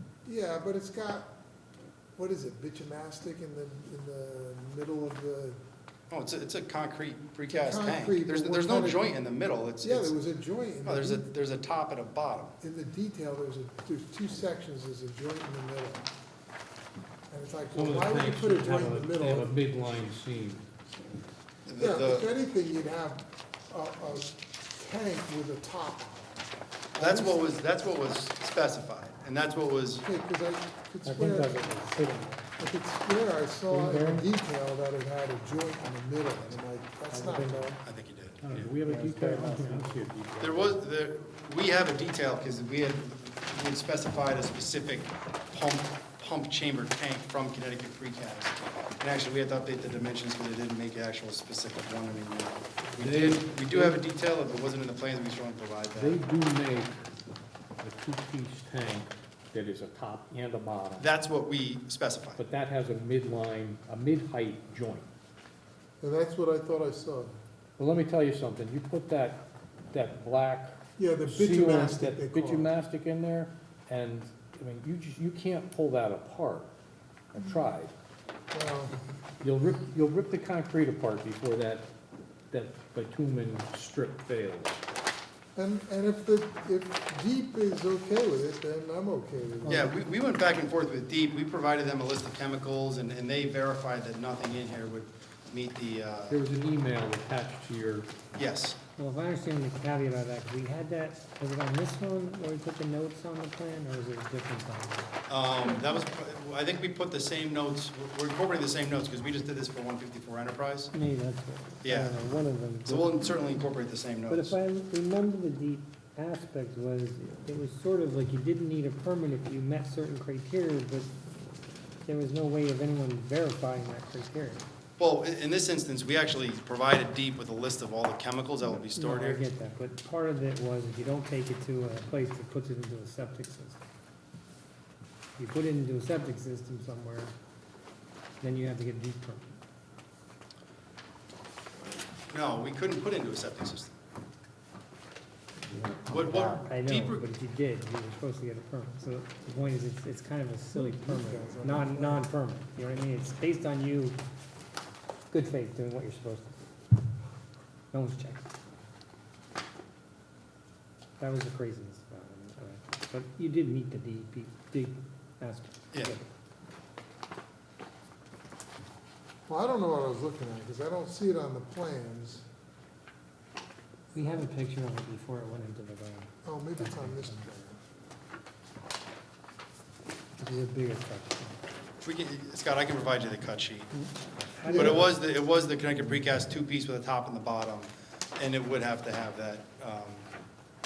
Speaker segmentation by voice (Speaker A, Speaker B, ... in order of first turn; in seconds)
Speaker A: 0.2-1.3, 2.1-5.6, 7.5-9.2, 9.8-11.3, 12.6-16.1, 17.3-19.5, 21.8-26.4, 27.0-27.5, 30.0-31.8, 32.5-37.7, 66.0-67.3, 71.0-72.7, 78.5-79.0, 85.5-89.9, 150.7-152.2, 169.5-172.4, 176.4-177.8, 184.7-185.1
Speaker B: 6.1-10.1, 10.8-12.5, 21.6-22.3, 26.9-30.0, 37.8-38.7, 40.4-56.1, 61.0-62.4, 89.7-96.4, 98.3-98.8, 105.3-110.9, 111.8-112.2, 112.8-114.5, 125.0-129.4, 142.3-143.9, 146.1-147.2, 182.0-183.9, 184.7-190.3
Speaker C: 17.7-20.6, 38.4-40.8, 53.0-54.0, 56.0-57.0, 57.8-61.1, 62.4-65.1, 67.8-76.7, 77.3-77.9, 79.4-81.9, 82.5-84.8, 96.3-98.1
Speaker D: 31.0-32.5, 33.7-34.3, 37.1-37.8, 38.6-40.0, 89.6-89.9, 99.0-105.1, 110.9-113.2, 114.3-121.1, 122.0-124.7, 128.6-133.8, 135.3-137.3, 138.4-139.6, 145.7-154.2, 155.3-156.6, 157.9-158.5, 161.2-166.3, 174.1-177.4, 180.4-181.6, 183.9-185.2